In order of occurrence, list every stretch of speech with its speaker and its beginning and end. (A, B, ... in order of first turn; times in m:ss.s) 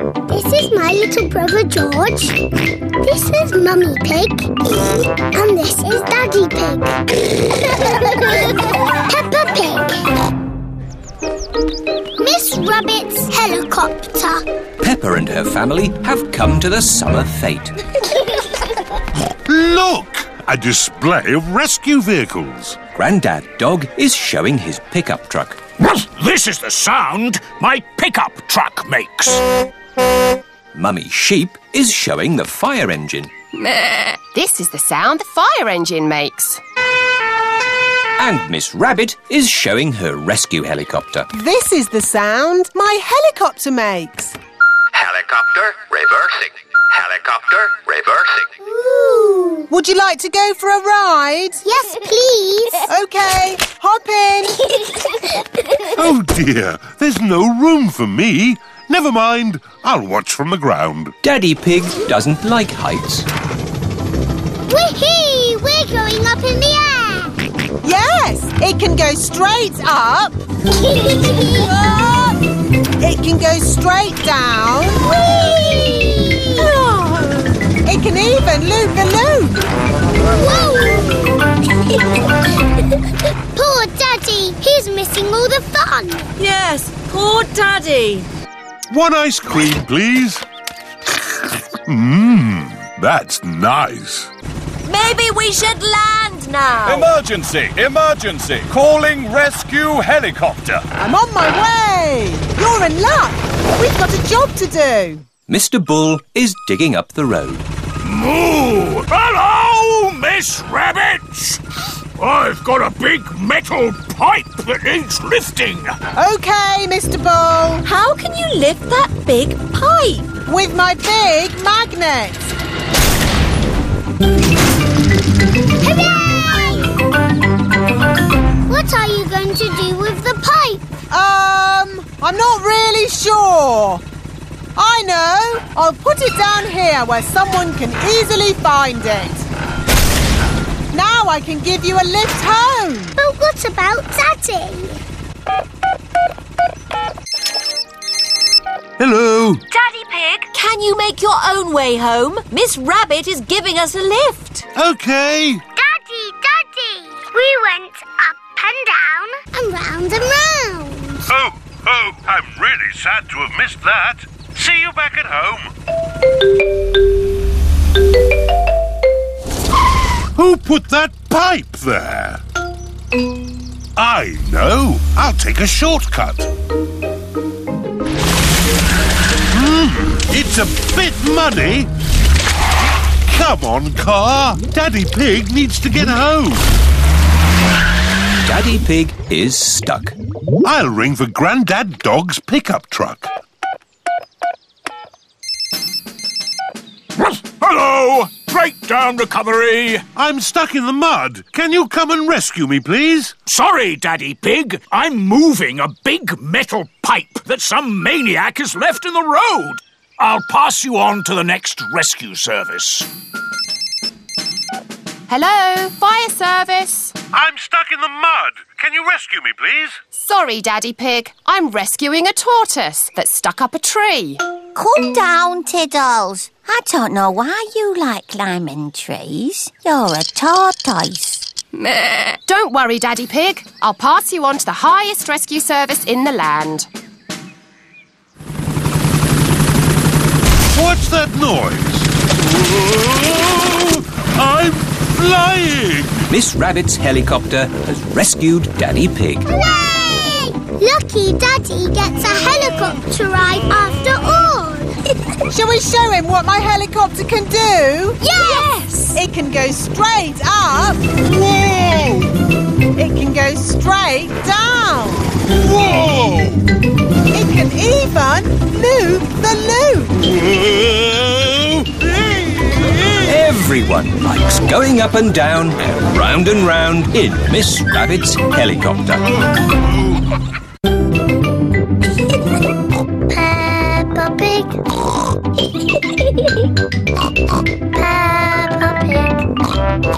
0:00.3-0:02.4 A
0:03.0-0:04.5 A
0:05.3-0:06.9 A
0:07.7-0:10.0 A
0:12.2-0:14.4 A
0:14.8-0:17.7 B
0:19.5-0:22.8 C
0:22.9-0:25.6 B
0:25.8-0:29.4 D
0:30.7-0:33.3 B
0:33.5-0:36.6 E
0:38.2-0:41.3 B
0:41.3-0:44.4 F
0:45.0-0:48.2 G
0:48.8-0:49.6 A
0:49.7-0:51.6 F
0:51.6-0:52.8 A
0:52.8-0:54.7 F
0:55.8-1:01.1 C
1:01.2-1:03.3 B
1:04.7-1:07.3 A
1:07.8-1:10.3 F
1:10.7-1:11.7 A
1:11.5-1:12.4 F
1:13.0-1:15.1 F
1:15.0-1:16.5 A
1:16.8-1:17.4 H
1:17.8-1:19.6 F
1:20.2-1:21.5 A
1:23.5-1:26.3 A
1:26.4-1:28.3 H
1:28.9-1:30.4 C
1:31.7-1:34.3 C
1:34.8-1:37.1 H
1:36.9-1:40.8 I
1:41.0-1:45.2 F
1:45.5-1:47.6 B
1:48.0-1:51.6 D
1:52.2-1:56.0 D
1:56.2-1:57.8 F
1:57.8-2:00.3 H
2:00.5-2:02.5 F
2:05.8-2:06.9 A
2:08.7-2:10.8 A
2:11.1-2:14.0 F
2:14.8-2:19.5 F
2:20.9-2:23.2 F
2:23.2-2:25.0 A
2:29.0-2:29.6 C
2:29.7-2:34.6 H
2:34.7-2:35.6 C
2:35.8-2:41.3 A
2:41.2-2:45.7 C
2:50.4-2:52.4 C
2:54.0-2:56.5 C
2:59.5-3:01.9 C
3:03.2-3:06.7 C
3:08.4-3:10.2 B
3:10.6-3:13.3 C
3:17.2-3:20.0 D
3:20.1-3:23.3 C
3:23.4-3:33.1 D
3:35.3-3:37.1 E
3:37.3-3:40.0 C
3:40.1-3:44.4 E
3:44.8-3:51.4 J
3:51.7-3:56.9 E
4:00.7-4:06.3 C
4:06.3-4:09.5 B
4:09.4-4:14.9 A
4:15.5-4:18.2 F
4:18.2-4:18.7 A
4:18.3-4:19.2 H
4:19.1-4:21.2 F
4:21.2-4:22.3 C
4:22.9-4:25.4 F
4:25.5-4:26.6 C
4:27.3-4:30.2 F
4:30.2-4:33.3 C
4:33.3-4:39.2 B
4:43.3-4:44.8 A
4:45.9-4:46.7 A
4:47.9-4:49.4 A